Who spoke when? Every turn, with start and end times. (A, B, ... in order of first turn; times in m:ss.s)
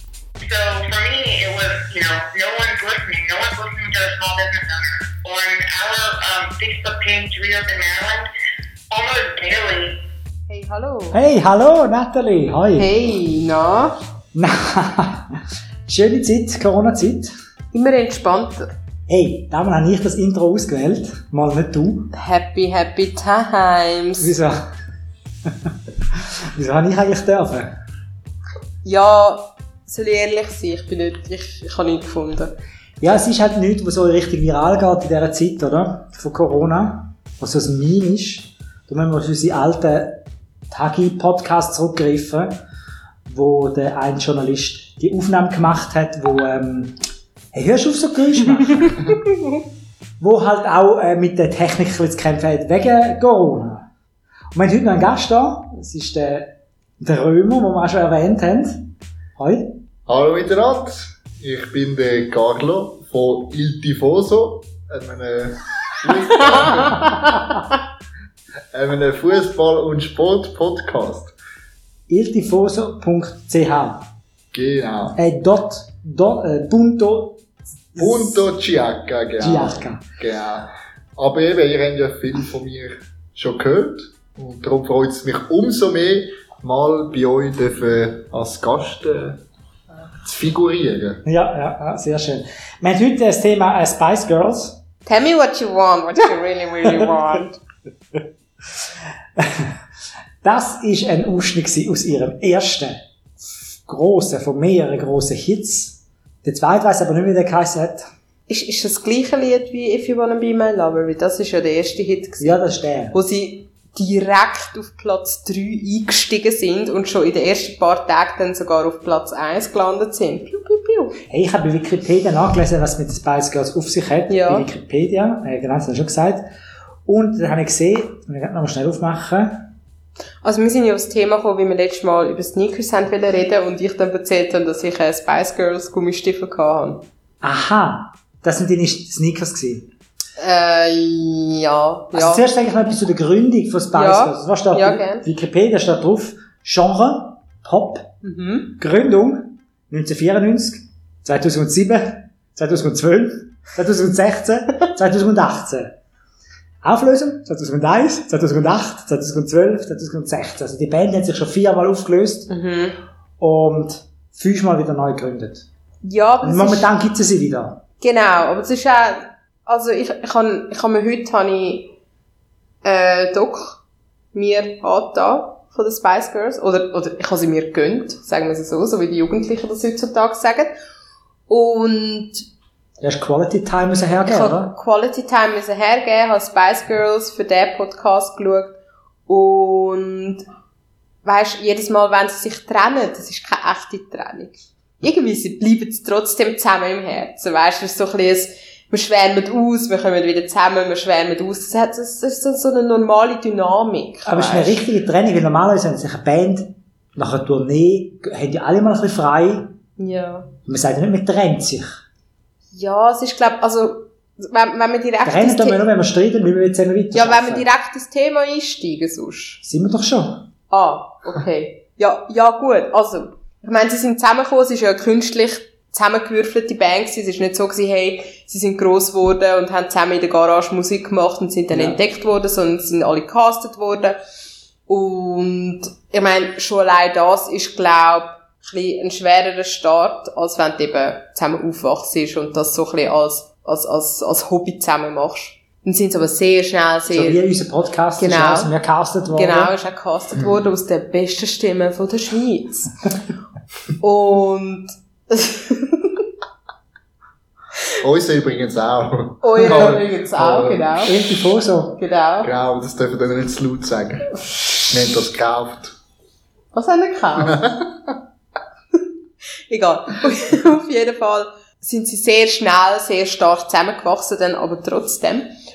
0:00.4-0:08.3 A
0:08.9-0:10.0 A
0:10.5-0:11.2 B
0:11.1-0:12.9 C
0:12.8-0:14.0 B
0:14.3-0:17.3 C
0:17.7-0:18.7 B
0:19.1-0:22.1 C
0:22.1-0:24.3 B
0:24.2-0:24.6 C
0:25.5-0:27.7 C
0:28.8-0:32.5 B
0:33.0-0:42.6 C
0:43.3-0:47.0 C
0:47.5-0:49.0 C
0:48.8-0:49.6 B
0:50.2-0:53.9 C
0:54.5-0:59.8 C
1:00.1-1:07.4 D
1:06.9-1:07.3 B
1:08.7-1:11.3 D
1:12.1-1:14.1 C
1:14.5-1:15.2 D
1:15.2-1:17.4 C
1:17.9-1:18.4 C
1:18.0-1:29.4 D
1:19.4-1:20.0 C
1:30.2-1:31.2 D
1:31.2-1:34.8 C
1:35.1-1:37.6 B
1:39.4-1:39.7 C
1:40.4-1:43.0 C
1:43.9-1:48.1 C
1:48.5-1:52.6 B
1:52.4-1:53.2 C
1:53.1-2:01.2 B
2:01.3-2:06.4 C
2:04.3-2:04.7 B
2:07.1-2:09.7 C
2:10.4-2:17.0 B
2:17.4-2:19.9 C
2:20.4-2:22.4 B
2:22.1-2:28.1 C
2:24.0-2:25.3 B
2:28.2-2:28.7 B
2:28.8-2:36.0 C
2:36.8-2:42.5 C
2:42.5-2:43.0 B
2:43.4-2:45.7 C
2:46.0-2:46.9 B
2:46.4-2:47.8 C
2:48.0-2:52.0 B
2:52.8-2:53.8 B
2:54.3-3:00.8 B
3:01.5-3:02.4 B
3:03.0-3:04.7 C
3:04.3-3:10.4 B
3:11.2-3:24.8 B
3:24.3-3:29.8 C
3:30.0-3:30.5 B
3:30.7-3:32.0 C
3:32.7-3:35.8 B
3:35.2-3:37.7 C
3:37.1-3:39.6 B
3:39.6-3:40.5 C
3:40.7-3:54.2 B
3:51.7-3:52.0 C
3:54.9-4:07.4 B
4:07.1-4:09.7 C
4:08.2-4:08.7 B
4:09.3-4:12.9 B
4:14.0-4:16.2 B
4:18.0-4:20.9 D
4:19.4-4:21.2 B
4:21.0-4:22.0 C
4:22.0-4:22.5 B
4:22.4-4:25.9 D
4:26.7-4:27.6 B
4:27.4-4:27.8 D
4:29.7-4:35.5 B